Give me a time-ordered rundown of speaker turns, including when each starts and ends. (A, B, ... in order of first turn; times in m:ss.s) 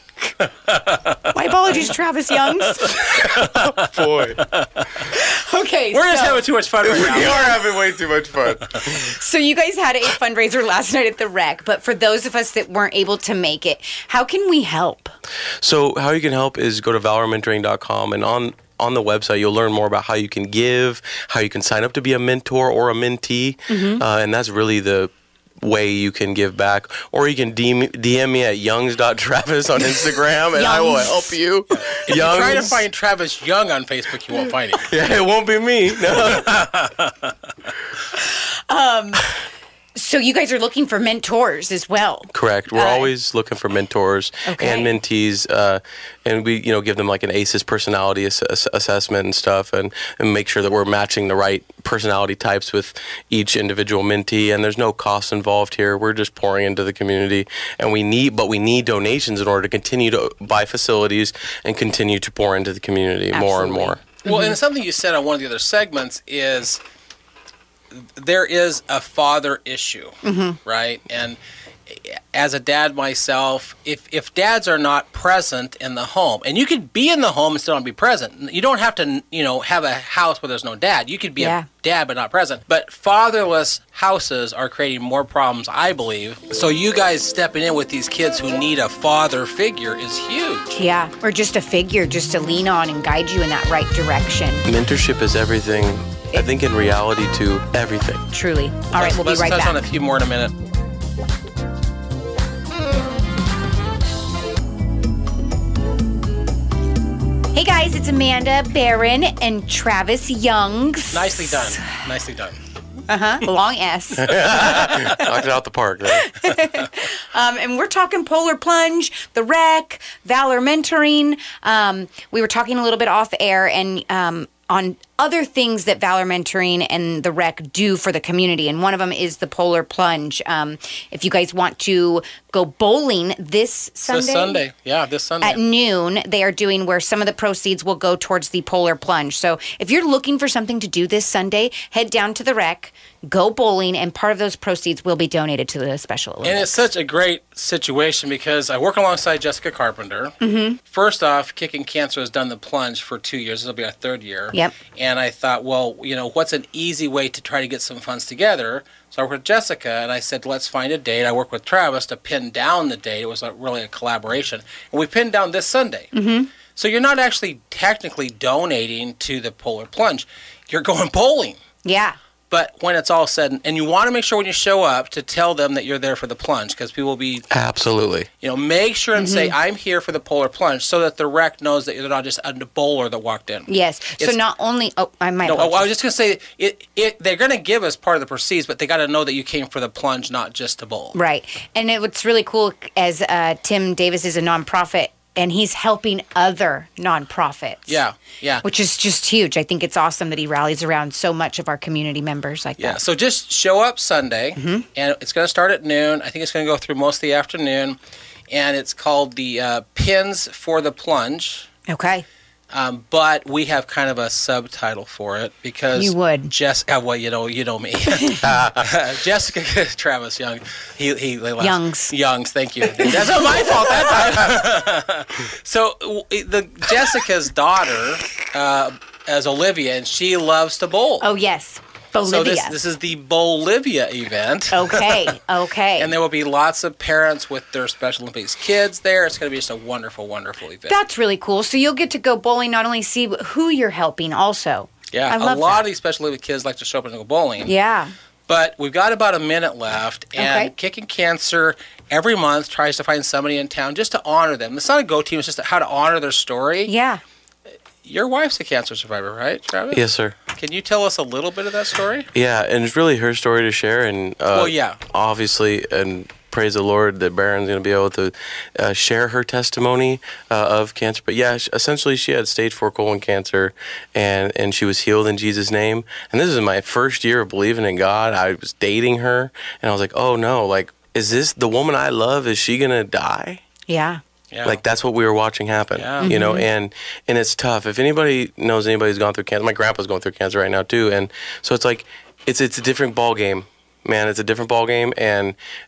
0:00.4-0:01.9 A
0:01.3-0:03.0 B
0:02.5-0:05.0 A
0:03.1-0:04.4 C
0:05.1-0:06.4 B
0:05.9-0:07.5 A
0:06.8-0:09.0 C
0:08.8-0:15.1 B
0:15.6-0:25.1 C
0:23.7-0:24.0 B
0:25.6-0:32.8 C
0:30.5-0:31.4 B
0:31.8-0:34.9 A
0:34.8-0:36.6 C
0:36.1-0:37.3 A
0:38.3-0:39.3 B
0:40.0-0:43.1 B
0:42.3-1:04.0 C
0:44.4-0:44.9 B
1:03.3-1:04.5 B
1:04.2-1:06.8 A
1:07.9-1:30.8 A
1:10.2-1:10.6 B
1:21.4-1:21.6 B
1:30.8-1:34.7 B
1:34.6-1:38.2 C
1:38.3-1:39.8 B
1:38.9-1:40.5 A
1:47.5-1:51.8 B
1:51.1-1:52.6 A
1:53.1-1:55.3 B
1:54.2-1:56.3 C
1:56.1-2:14.6 B
2:14.1-2:15.6 A
2:15.4-2:26.8 B
2:26.4-2:46.1 A
2:30.4-2:30.8 B
2:46.1-2:46.5 B
2:46.7-2:51.6 A
2:51.8-2:52.2 B
2:52.5-2:57.4 A
2:57.5-2:58.3 C
2:58.4-3:04.4 A
2:59.2-2:59.5 B
3:03.7-3:05.9 B
3:05.4-3:11.2 A
3:11.1-3:18.0 B
3:17.9-3:18.6 A
3:18.6-3:23.0 B
3:22.8-3:28.0 A
3:24.6-3:24.8 B
3:28.5-3:31.7 A
3:31.9-3:32.2 B
3:32.7-3:51.3 A
3:35.9-3:36.5 B
3:38.4-3:38.8 C
3:41.6-3:42.1 B
3:43.0-3:43.9 B
3:51.2-3:52.8 B
3:52.2-3:55.3 A
3:54.7-3:56.1 B
3:56.0-4:01.0 A
4:00.9-4:05.8 B
4:05.1-4:07.7 A
4:07.6-4:08.1 B
4:08.5-4:16.9 A
4:10.4-4:10.7 B
4:16.8-4:17.2 B
4:18.0-4:22.3 A
4:19.9-4:20.4 C
4:22.3-4:43.6 C
4:24.5-4:25.0 A
4:43.9-4:44.2 B
4:44.5-4:44.8 A
4:44.6-4:55.6 C
4:46.0-4:46.3 A
4:46.2-4:46.7 B